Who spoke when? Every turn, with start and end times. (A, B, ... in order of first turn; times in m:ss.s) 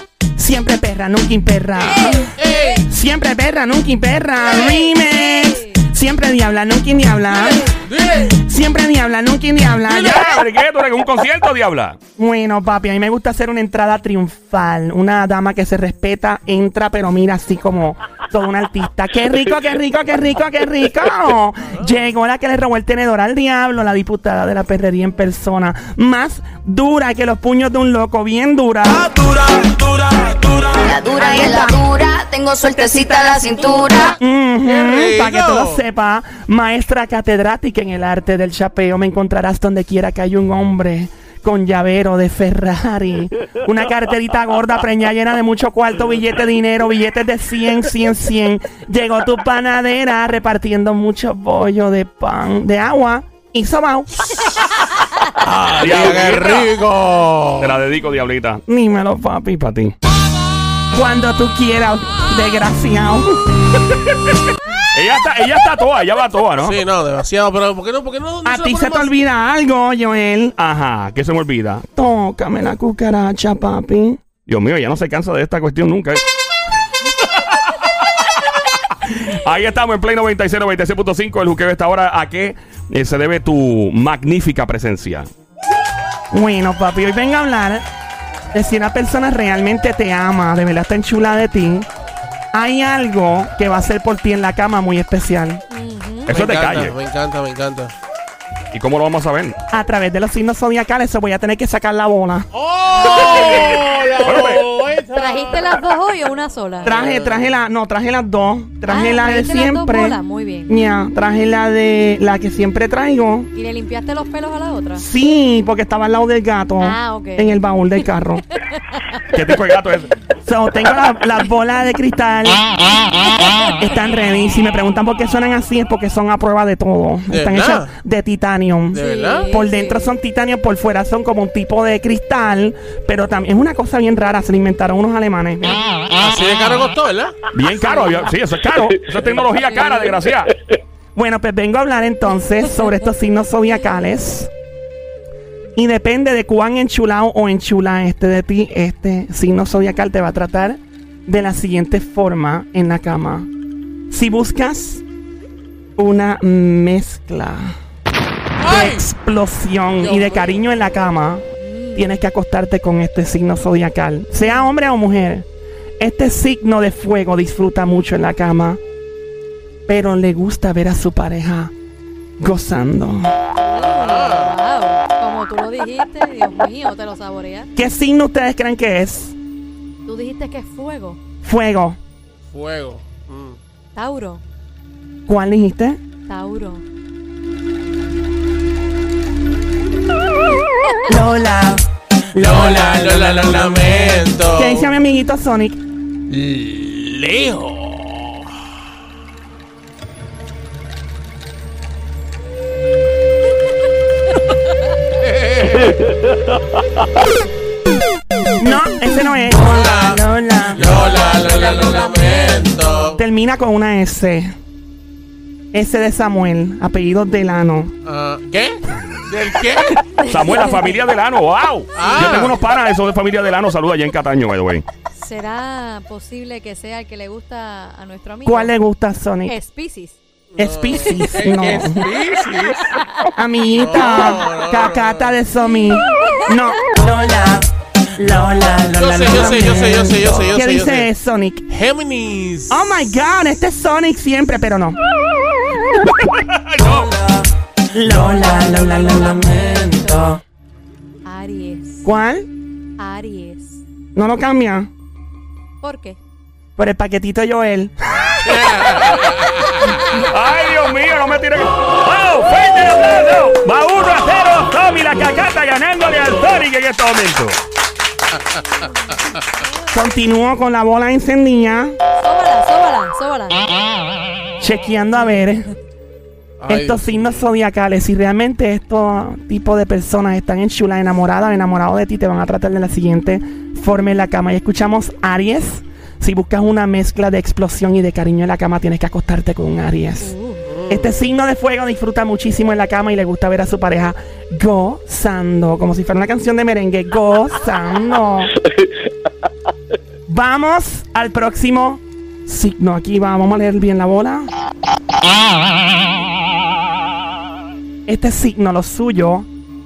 0:00.4-0:07.7 A
0:01.8-0:02.4 B
0:01.9-0:02.9 C
0:04.4-0:05.8 B
0:07.6-0:08.4 C
0:08.3-0:10.4 A
0:09.9-0:12.0 D
0:12.2-0:29.3 A
0:21.7-0:22.0 C
0:30.8-0:34.2 E
0:31.1-0:31.9 A
0:32.6-0:54.2 A
0:34.6-0:35.8 C
0:55.4-0:57.8 C
0:55.8-0:56.8 D
0:57.6-0:58.6 D
0:58.7-0:59.9 A
1:00.9-1:03.5 A
1:04.9-1:06.8 D
1:06.6-1:09.2 C
1:08.4-1:10.6 A
1:10.6-1:11.9 D
1:12.0-1:14.2 A
1:14.4-1:16.2 D
1:17.2-1:17.7 D
1:19.0-1:25.3 D
1:26.3-1:27.8 A
1:28.5-1:31.9 A
1:32.5-1:35.6 A
1:35.7-1:36.3 B
1:36.3-1:37.0 D
1:36.3-1:37.9 C
1:38.7-1:39.6 D
1:39.7-1:42.5 A
1:42.5-1:45.6 C
1:42.9-1:43.8 B
1:43.2-1:43.4 A
1:44.2-1:44.6 D
1:45.1-1:47.0 B
1:46.8-1:47.6 C
1:46.8-1:53.5 A
1:48.9-1:50.8 B
1:53.5-1:55.1 B
1:55.0-1:58.4 A
1:56.8-1:57.7 B
1:59.3-2:00.2 D
2:00.4-2:02.6 A
2:03.8-2:15.8 A
2:07.3-2:07.9 C
2:08.9-2:09.5 C
2:09.0-2:10.1 B
2:16.2-2:17.4 C
2:17.5-2:20.5 D
2:21.2-2:24.5 A
2:25.8-2:33.5 A
2:34.1-2:35.0 A
2:36.0-2:37.8 A
2:38.6-2:39.1 C
2:38.6-2:41.4 A
2:40.0-2:40.6 C
2:41.6-2:42.2 B
2:42.0-2:45.5 A
2:44.4-2:44.7 B
2:46.0-2:48.8 A
2:49.9-2:51.7 A
2:52.4-2:53.3 A
2:53.6-2:57.7 B
2:53.9-2:54.6 C
2:57.8-2:59.4 A
3:00.0-3:01.2 B
3:01.4-3:02.0 A
3:02.5-3:03.6 C
3:04.0-3:04.4 B
3:05.3-3:06.0 A
3:06.3-3:06.8 B
3:11.0-3:15.8 A
3:12.4-3:15.0 C
3:16.3-3:18.6 C
3:25.2-3:26.1 C
3:28.6-3:31.0 A
3:29.6-3:33.2 C
3:30.8-3:32.9 B
3:33.2-3:34.5 A
3:35.7-3:37.9 A
3:38.0-3:40.0 C
3:40.1-3:41.0 B
3:40.2-3:44.8 D
3:42.0-3:42.6 C
3:45.1-3:48.7 B
3:48.5-3:49.5 A
3:49.5-3:50.2 B
3:50.5-3:53.0 C
3:50.6-3:52.1 A
3:51.0-3:51.3 B
3:53.0-3:53.2 B
3:53.4-4:01.6 A
3:53.8-3:55.4 C
3:55.8-3:56.7 B
3:59.0-4:01.1 C
4:01.7-4:03.2 C
4:02.7-4:05.0 A
4:06.2-4:07.2 D
4:07.9-4:10.4 A
4:11.2-4:12.1 B
4:12.0-4:12.5 A
4:13.0-4:13.8 B
4:14.2-4:14.9 A
4:15.8-4:16.2 B
4:16.8-4:18.7 A
4:18.4-4:19.8 C
4:20.1-4:27.6 D
4:29.9-4:32.0 A
4:32.2-4:33.6 B
4:34.6-4:35.7 A
4:36.6-4:37.5 C
4:36.7-4:50.3 A
4:50.2-4:50.6 B
4:50.7-4:51.3 C
4:50.9-4:58.5 A
5:00.3-5:04.5 A
5:08.1-5:09.5 A